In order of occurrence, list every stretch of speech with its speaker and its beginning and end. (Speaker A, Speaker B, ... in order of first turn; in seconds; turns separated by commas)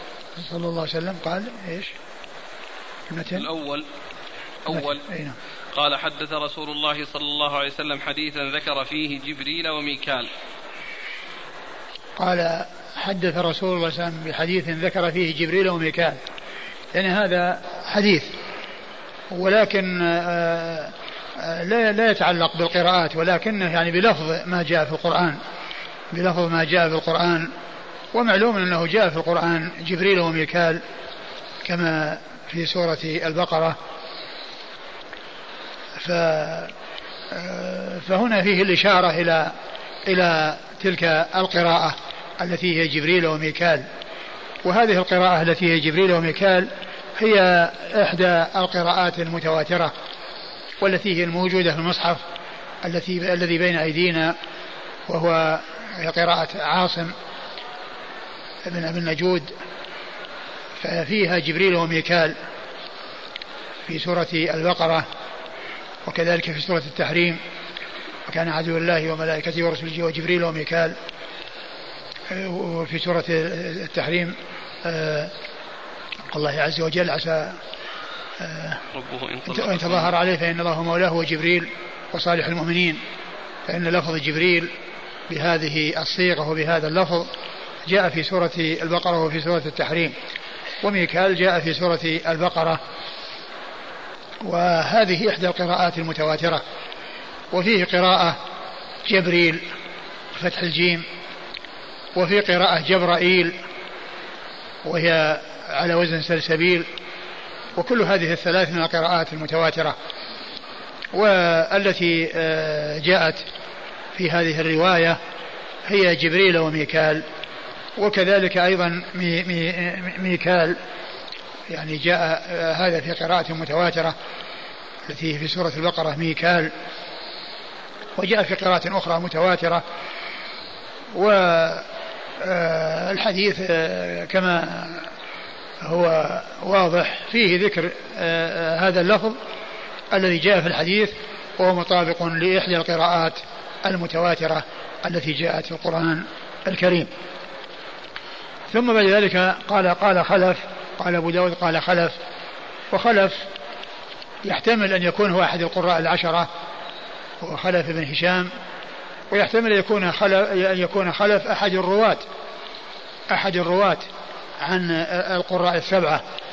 Speaker A: 0.4-1.9, Speaker A: 3.1-3.4, Speaker B: 3.3-3.9, Speaker B: 4.6-5.0, Speaker A: 4.7-5.3, Speaker B: 5.7-10.3, Speaker A: 12.2-16.2, Speaker A: 16.9-18.3, Speaker A: 19.3-25.4, Speaker A: 26.1-27.5, Speaker A: 28.1-30.8, Speaker A: 31.6-33.8, Speaker A: 36.0-36.7, Speaker A: 37.3-39.5, Speaker A: 40.1-43.9, Speaker A: 44.6-49.9, Speaker A: 50.8-52.2, Speaker A: 52.8-54.3, Speaker A: 55.1-57.1, Speaker A: 58.6-59.5, Speaker A: 60.8-62.4, Speaker A: 63.9-65.0, Speaker A: 66.1-67.4, Speaker A: 68.3-71.0, Speaker A: 72.3-75.3, Speaker A: 76.3-77.6, Speaker A: 78.4-78.8, Speaker B: 78.9-80.1, Speaker A: 79.5-83.0, Speaker A: 83.7-84.7, Speaker A: 85.3-87.3, Speaker A: 87.8-90.1, Speaker A: 90.8-92.8, Speaker A: 94.4-96.6, Speaker A: 97.5-98.4, Speaker A: 99.0-99.6, Speaker A: 100.3-101.0, Speaker A: 102.2-103.6, Speaker A: 104.8-106.9, Speaker A: 107.8-110.0, Speaker A: 111.1-113.4, Speaker A: 114.2-115.2, Speaker A: 115.8-117.2, Speaker A: 118.0-120.8, Speaker A: 121.7-124.2, Speaker A: 125.1-126.7, Speaker A: 128.2-129.8, Speaker A: 131.1-131.9, Speaker A: 132.4-135.1, Speaker A: 135.8-139.4, Speaker A: 140.1-147.1, Speaker A: 148.7-152.2, Speaker A: 152.9-153.4, Speaker A: 154.4-156.5, Speaker A: 157.4-158.5, Speaker A: 159.3-162.2, Speaker A: 163.3-164.1, Speaker A: 164.6-166.2